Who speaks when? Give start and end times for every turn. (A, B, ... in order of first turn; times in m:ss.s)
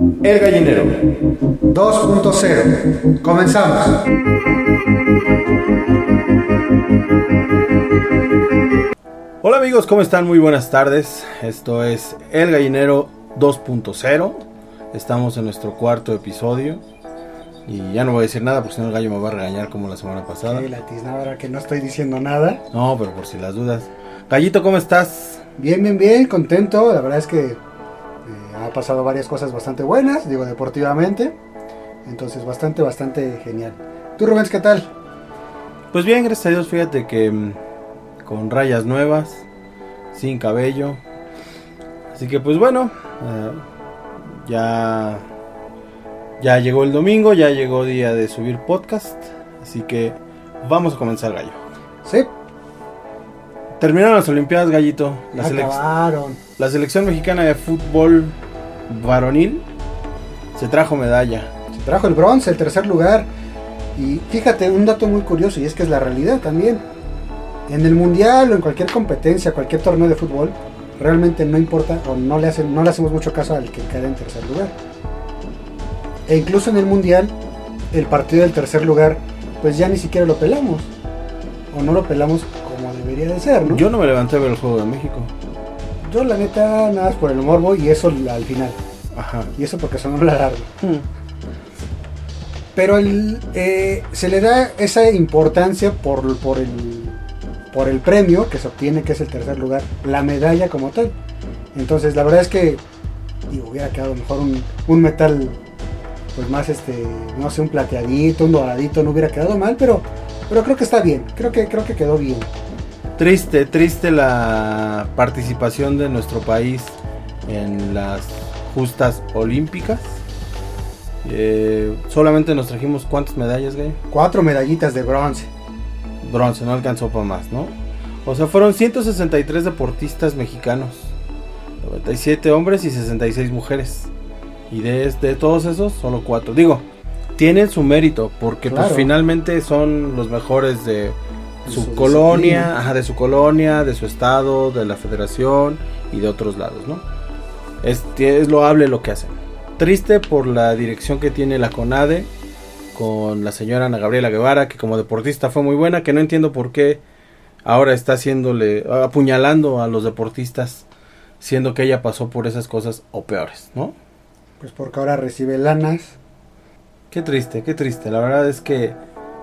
0:00.2-0:01.0 A
0:01.7-0:04.0 B
0:09.4-0:16.8 A
0:17.7-0:20.7 A
0:20.5-0:22.6 B
0:22.7-0:25.4 A
0:25.6-0:27.6 B
0:28.3-0:31.4 B
0:32.0-0:34.9 B
0:35.9-0:37.6 A
0:38.2-0:39.4 A
0:40.1-0:41.0 A
0:42.1-0:43.6 A
0:44.2-0:45.3 A
0:46.4-0:51.6 A
0:52.0-0:52.3 B
0:53.8-0:55.8 A
0:55.3-0:56.4 B
0:56.6-0:58.4 A
0:58.9-0:59.6 A
1:00.6-1:01.5 A
1:01.7-1:03.3 B
1:04.0-1:06.8 B
1:07.7-1:14.8 B
1:16.3-1:17.3 B
1:17.9-1:20.9 B
1:21.7-1:23.8 B
1:23.7-1:25.3 A
1:26.0-1:28.8 B
1:29.1-1:29.5 A
1:29.6-1:30.7 B
1:32.8-1:41.2 B
1:41.7-1:42.8 B
1:43.5-1:45.6 B
1:46.4-1:52.5 B
1:53.2-2:00.2 A
2:01.2-2:04.0 A
2:04.1-2:05.5 B
2:06.2-2:07.7 A
2:08.2-2:11.1 A
2:11.8-2:14.1 A
2:14.7-2:16.8 A
2:17.4-2:21.2 A
2:18.7-2:19.1 B
2:21.6-2:22.7 B
2:21.7-2:27.0 A
2:27.8-2:32.3 A
2:32.9-2:37.0 A
2:37.6-2:40.8 A
2:41.4-2:44.0 A
2:44.6-2:46.2 B
2:47.1-2:49.0 A